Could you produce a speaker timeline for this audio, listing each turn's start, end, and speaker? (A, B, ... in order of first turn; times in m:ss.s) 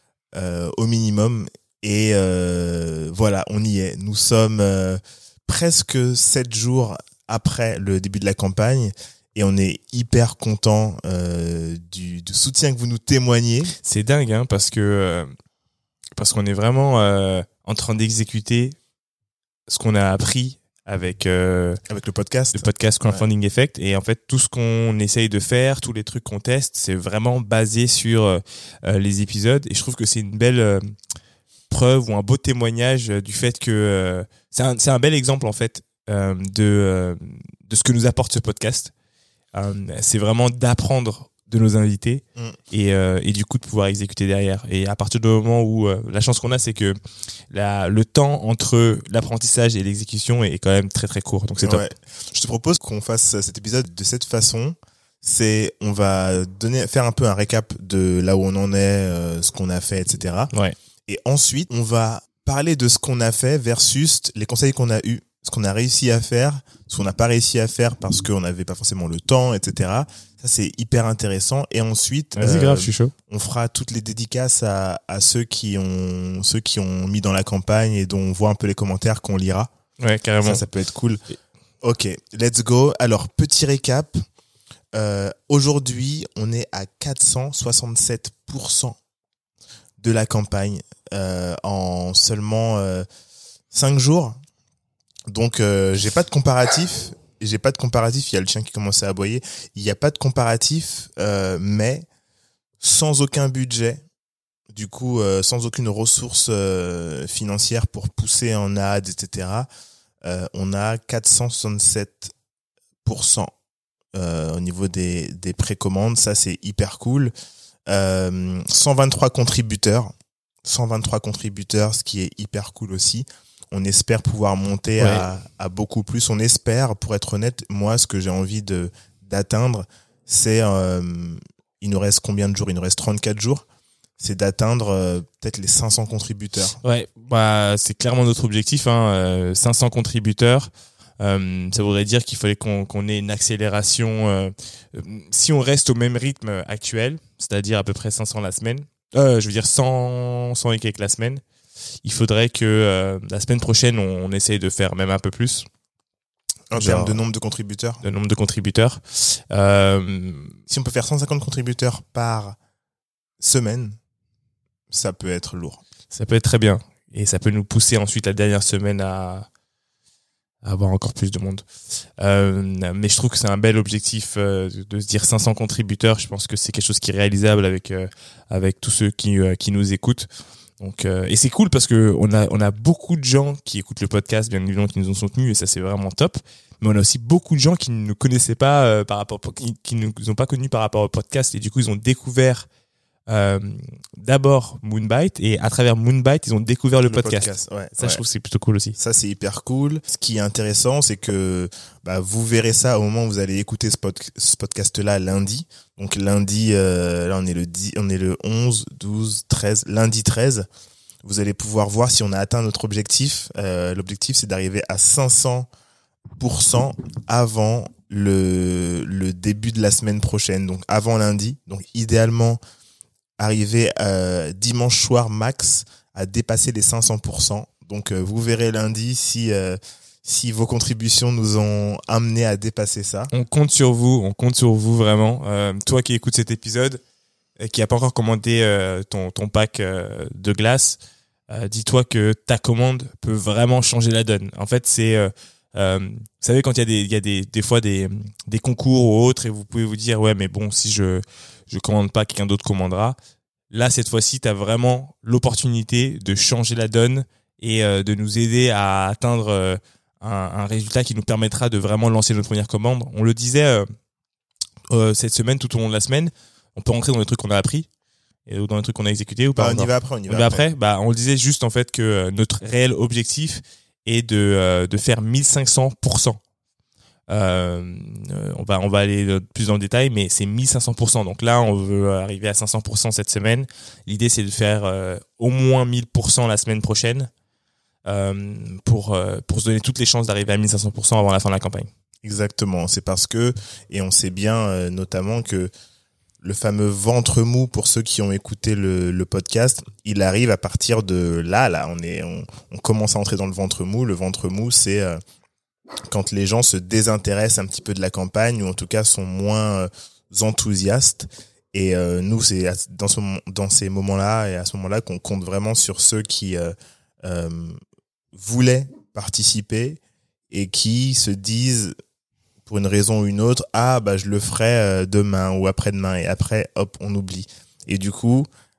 0:00.3-0:13.7 A
0:13.8-0:15.3 B
0:16.2-0:18.8 B
0:19.7-0:21.8 B
0:21.9-0:23.2 A
0:22.5-0:30.9 B
0:31.7-0:38.9 B
0:39.5-0:47.0 B
0:47.5-0:51.9 B
0:51.6-1:00.5 A
1:01.1-1:19.7 A
1:12.4-1:13.1 B
1:20.0-1:20.6 B
1:20.4-1:21.2 A
1:21.8-1:24.2 A
1:24.9-1:29.0 A
1:30.0-1:33.1 A
1:33.7-1:34.4 A
1:35.3-1:42.1 A
1:42.8-1:44.0 A
1:44.7-1:49.7 A
1:50.2-1:52.3 A
1:53.0-1:53.5 A
1:54.2-1:57.3 A
1:57.9-2:00.1 A
2:00.6-2:13.6 A
2:05.0-2:05.2 B
2:14.2-2:16.8 A
2:16.8-2:31.4 B
2:32.0-2:35.7 B
2:36.7-2:38.0 A
2:36.8-2:37.2 B
2:38.0-2:40.6 B
2:40.7-2:42.6 A
2:43.4-2:44.0 A
2:44.9-2:45.8 A
2:46.1-2:49.5 B
2:50.6-2:51.7 B
2:52.2-3:00.3 B
3:00.8-3:12.7 B
3:13.3-3:19.0 B
3:17.1-3:18.2 A
3:19.0-3:30.7 A
3:31.2-3:35.7 A
3:36.4-3:42.6 A
3:43.4-3:53.3 A
3:53.3-3:57.0 B
3:57.6-4:01.0 B
4:01.5-4:13.2 B
4:13.7-4:23.9 B
4:24.9-4:27.9 B
4:28.5-4:36.4 B
4:29.6-4:30.6 A
4:37.3-4:47.3 B
4:48.1-4:51.9 B
4:52.2-4:55.7 A
4:56.4-5:05.2 A
5:06.1-5:17.8 A
5:18.3-5:20.0 A
5:20.5-5:21.9 A
5:22.7-5:28.5 A